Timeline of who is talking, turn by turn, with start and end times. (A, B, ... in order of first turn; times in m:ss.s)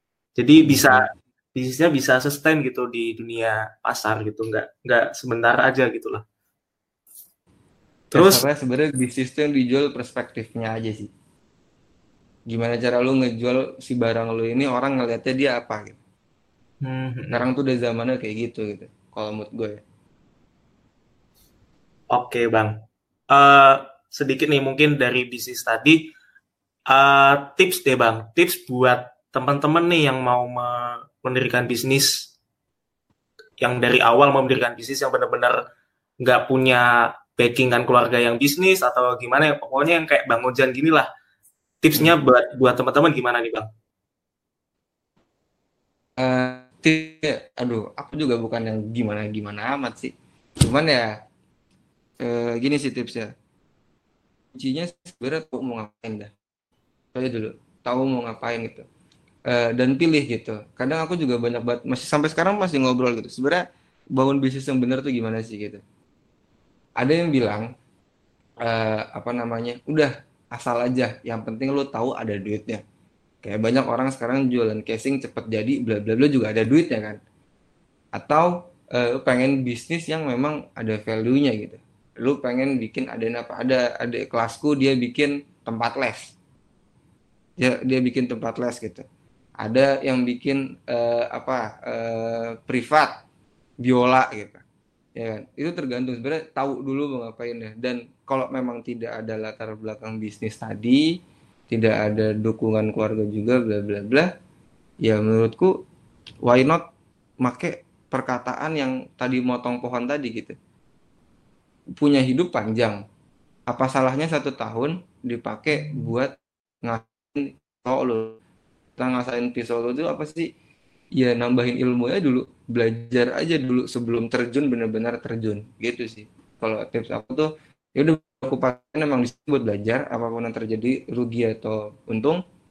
0:00.4-0:06.2 A
0:00.6-0:01.0 B
0:08.1-0:08.4 A
0:08.1-0:11.1 B
0:12.5-0:16.0 B
0:16.8-0:17.5 A
0:17.3-0:19.8 B
0:22.1-0:22.7 A
0:23.3-0:26.0 A
0:26.9-0:32.3 A
0:33.6-0:35.6 A
0:36.2-0:41.1 A
0:41.8-0:43.7 A
0:46.2-0:51.1 B
0:52.2-0:53.3 B
0:54.6-0:56.3 B
0:57.1-0:58.8 B
0:59.5-1:05.8 B
1:07.0-1:07.7 B
1:08.6-1:12.8 B
1:13.4-1:17.2 B
1:18.2-1:26.3 B
1:27.6-1:29.0 B
1:29.6-1:33.2 B
1:33.8-1:34.6 B
1:35.2-1:41.0 B
1:41.7-1:44.3 B
1:45.0-1:45.7 B
1:46.4-1:46.8 B
1:47.4-1:50.6 B
1:52.0-1:53.0 B
1:53.7-1:56.3 B
1:56.8-1:58.4 B
1:59.0-2:00.5 B
2:01.2-2:12.4 B